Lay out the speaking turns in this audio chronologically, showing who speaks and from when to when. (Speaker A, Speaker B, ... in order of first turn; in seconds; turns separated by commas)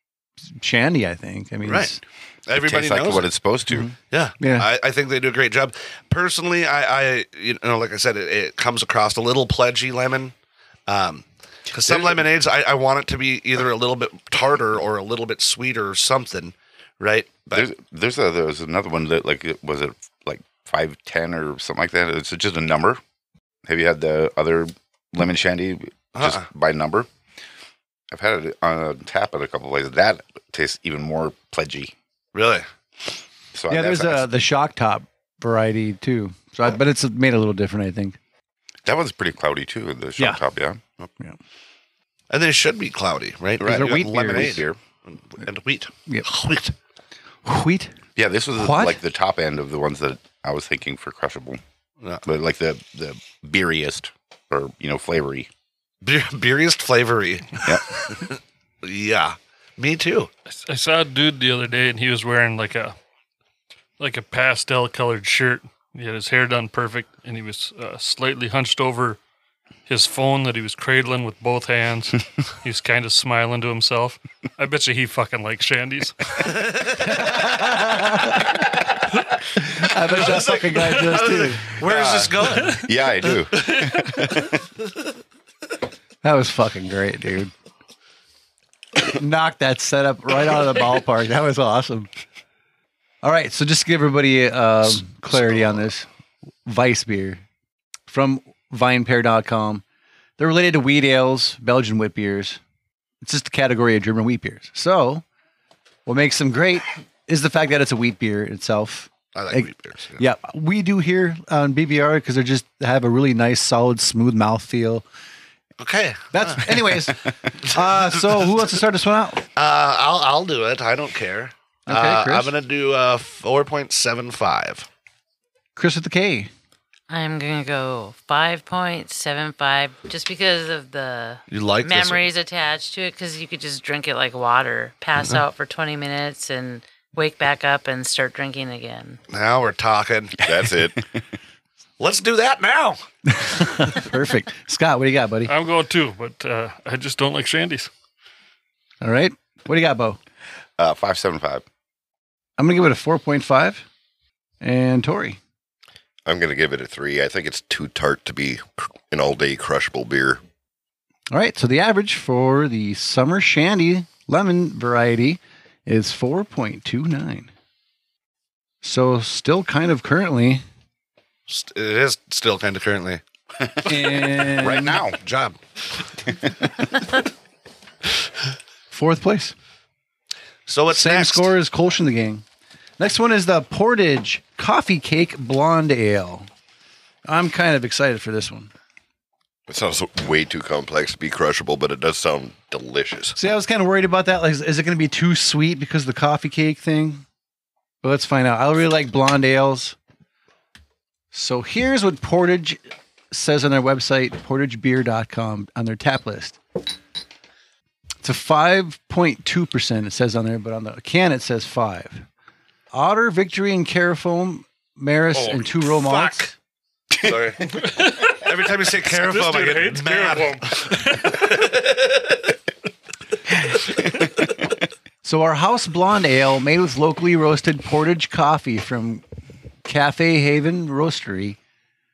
Speaker A: 0.6-2.0, Speaker B: 1.6-1.9, Speaker B: 2.5-3.3, Speaker C: 2.5-3.9, Speaker A: 3.7-4.7, Speaker B: 4.1-10.3, Speaker B: 10.9-17.7, Speaker C: 11.8-12.2, Speaker C: 17.5-23.0, Speaker C: 23.6-27.1, Speaker B: 26.1-26.4, Speaker C: 28.1-31.9, Speaker B: 32.3-32.6, Speaker C: 33.5-34.3, Speaker A: 33.7-38.2, Speaker C: 38.8-40.8, Speaker B: 42.3-46.7, Speaker C: 43.6-44.8, Speaker A: 43.6-44.6, Speaker A: 47.4-47.9, Speaker C: 48.1-51.6, Speaker A: 48.5-49.0, Speaker C: 52.2-55.5, Speaker B: 56.0-57.6, Speaker C: 57.6-58.0, Speaker B: 58.8-60.3, Speaker D: 60.5-63.0, Speaker D: 64.0-69.2, Speaker D: 69.9-76.4, Speaker B: 76.5-77.2, Speaker A: 77.0-78.6, Speaker A: 79.5-81.8, Speaker B: 80.1-82.8, Speaker C: 81.8-84.6, Speaker A: 86.2-87.5, Speaker A: 89.1-92.1, Speaker A: 93.2-96.1, Speaker A: 96.7-97.4, Speaker A: 98.1-99.8, Speaker A: 100.4-102.6, Speaker A: 103.2-105.2, Speaker A: 106.0-115.0, Speaker B: 109.3-110.2, Speaker B: 115.8-117.1, Speaker A: 116.3-119.4, Speaker B: 117.6-118.4, Speaker B: 119.5-124.9, Speaker A: 121.9-122.5, Speaker A: 125.8-126.5, Speaker E: 127.1-139.2, Speaker B: 131.5-132.2, Speaker B: 139.3-140.3, Speaker F: 140.4-141.0, Speaker B: 142.0-143.0, Speaker A: 143.3-145.5, Speaker D: 145.4-147.9, Speaker A: 149.0-150.2, Speaker C: 150.8-151.6, Speaker A: 152.6-153.8, Speaker A: 154.6-155.4, Speaker F: 156.2-160.4, Speaker A: 161.3-167.5, Speaker A: 168.8-170.6, Speaker B: 171.5-173.2, Speaker C: 173.6-175.2, Speaker A: 173.8-175.0, Speaker B: 175.2-175.6, Speaker A: 178.9-179.5, Speaker B: 180.7-181.5, Speaker A: 180.9-182.4, Speaker A: 183.0-186.5, Speaker A: 187.2-188.7, Speaker F: 189.7-193.3, Speaker A: 193.3-197.2, Speaker A: 198.0-199.9, Speaker A: 201.3-202.8, Speaker A: 203.3-206.6, Speaker A: 208.2-212.2, Speaker A: 212.9-216.5, Speaker B: 215.3-216.5, Speaker B: 217.2-217.8, Speaker D: 217.7-221.5, Speaker B: 218.3-222.2, Speaker A: 225.2-229.2, Speaker A: 229.8-231.6